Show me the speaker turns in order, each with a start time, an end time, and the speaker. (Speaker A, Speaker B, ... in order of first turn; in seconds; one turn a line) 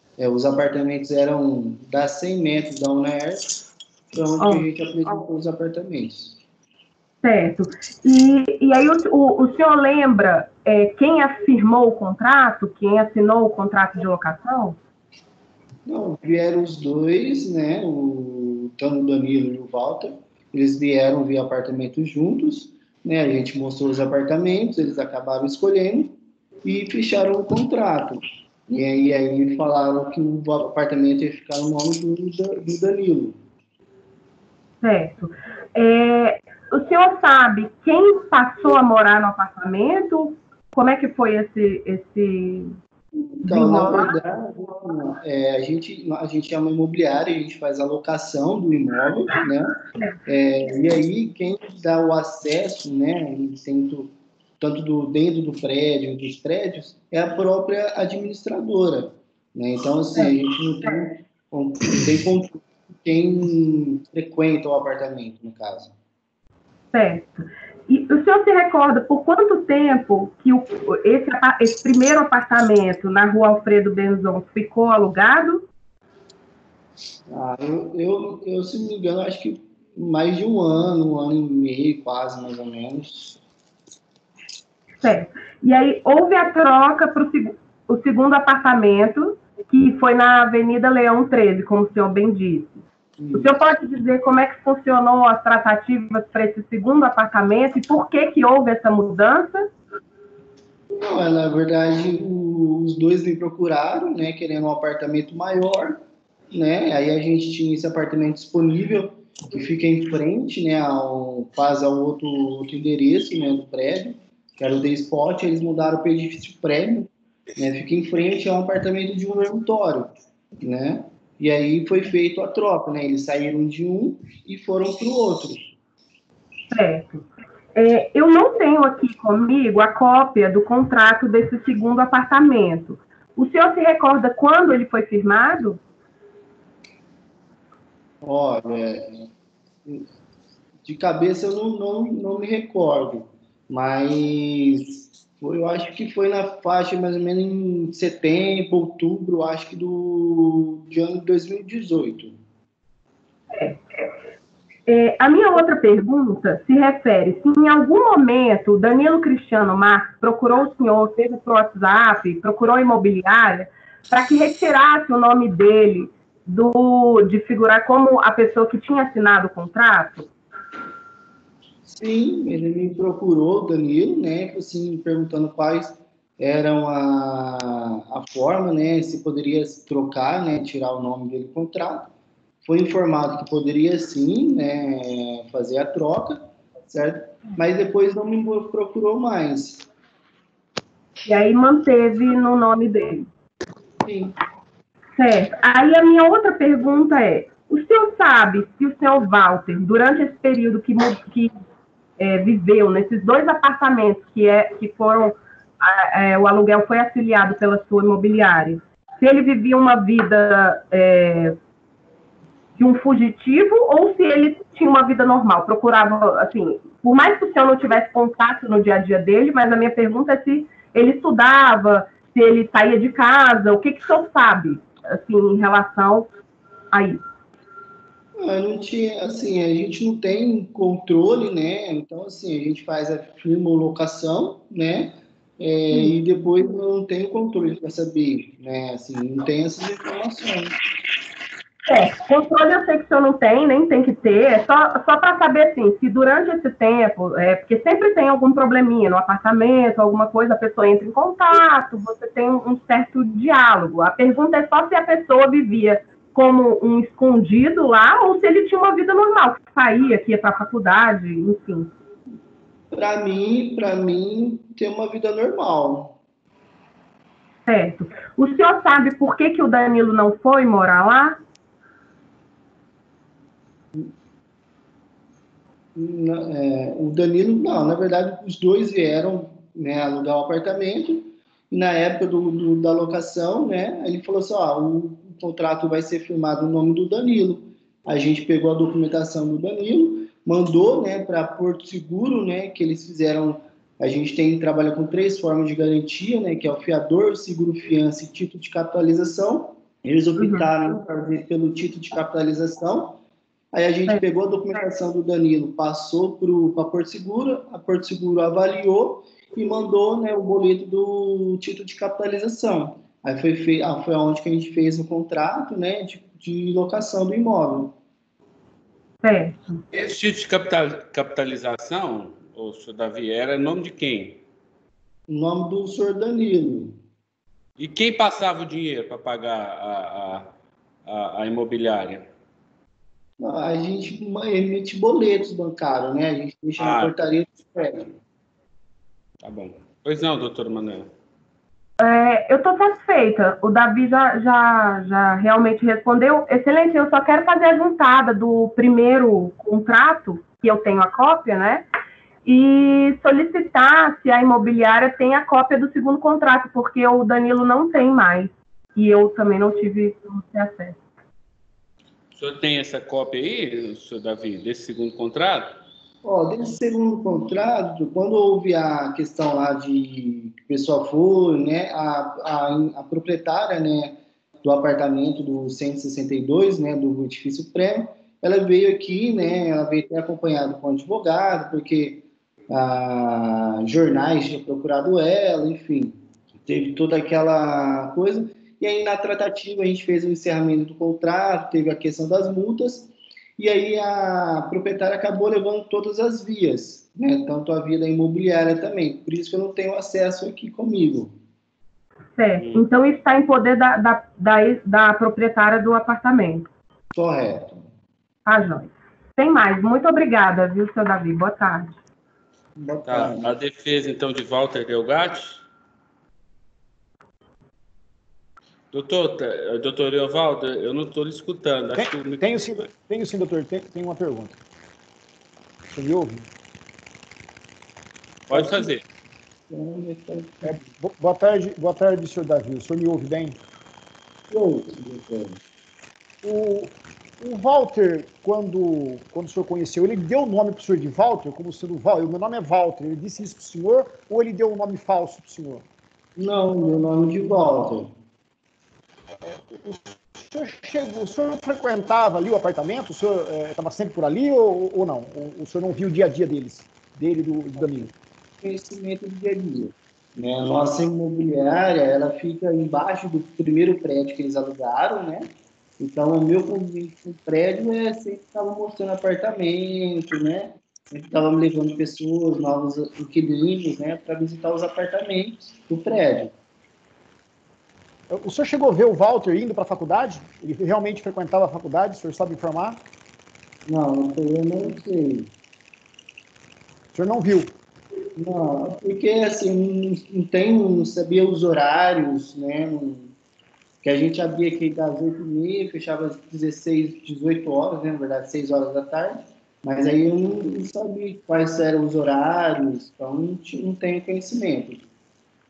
Speaker A: 0.2-3.5
Speaker A: 4.1-6.4
Speaker B: 4.4-5.1
Speaker B: 7.2-14.8
Speaker A: 15.9-33.4
Speaker B: 34.8-42.8
Speaker A: 43.4-65.9
Speaker B: 43.5-44.1
Speaker B: 66.9-75.6
Speaker A: 77.3-83.4
Speaker B: 85.0-92.8
Speaker A: 93.2-93.6
Speaker B: 93.4-99.7
Speaker A: 100.9-125.7
Speaker B: 126.7-135.8
Speaker A: 138.2-139.3
Speaker A: 140.8-152.4
Speaker B: 153.5-153.8
Speaker B: 154.9-170.3
Speaker A: 171.9-182.1
Speaker A: 182.6-189.9
Speaker B: 191.3-193.3
Speaker A: 194.0-194.3
Speaker B: 195.2-201.6
Speaker B: 202.2-211.6
Speaker B: 212.8-226.3
Speaker B: 226.9-227.2
Speaker A: 228.4-240.8
Speaker B: 241.9-261.9
Speaker A: 262.9-266.2
Speaker B: 267.7-271.4
Speaker A: 275.9-303.2
Speaker B: 300.4-300.7
Speaker A: 303.7-318.0
Speaker B: 319.2-319.8
Speaker C: 319.9-324.4
Speaker A: 325.3-327.0
Speaker C: 327.8-330.5
Speaker C: 331.1-332.3
Speaker A: 333.4-338.1
Speaker C: 336.8-337.1
Speaker C: 339.4-341.1
Speaker B: 342.0-351.9
Speaker B: 352.4-361.0
Speaker C: 362.3-365.8
Speaker A: 366.2-401.3
Speaker B: 402.4-406.7
Speaker C: 402.6-402.8
Speaker A: 407.1-407.8
Speaker B: 408.5-412.0
Speaker A: 412.8-413.5
Speaker C: 413.1-415.6
Speaker C: 418.9-422.9
Speaker D: 421.9-424.6
Speaker D: 425.9-426.5
Speaker C: 428.5-429.0
Speaker A: 428.5-428.9
Speaker A: 429.7-430.7
Speaker D: 430.6-433.6
Speaker A: 434.5-435.6
Speaker D: 436.4-445.9
Speaker A: 446.4-448.1
Speaker D: 449.4-458.1
Speaker A: 458.6-476.5
Speaker D: 478.3-483.0
Speaker A: 483.9-485.5
Speaker D: 487.1-487.8
Speaker A: 488.4-493.3
Speaker A: 494.0-505.1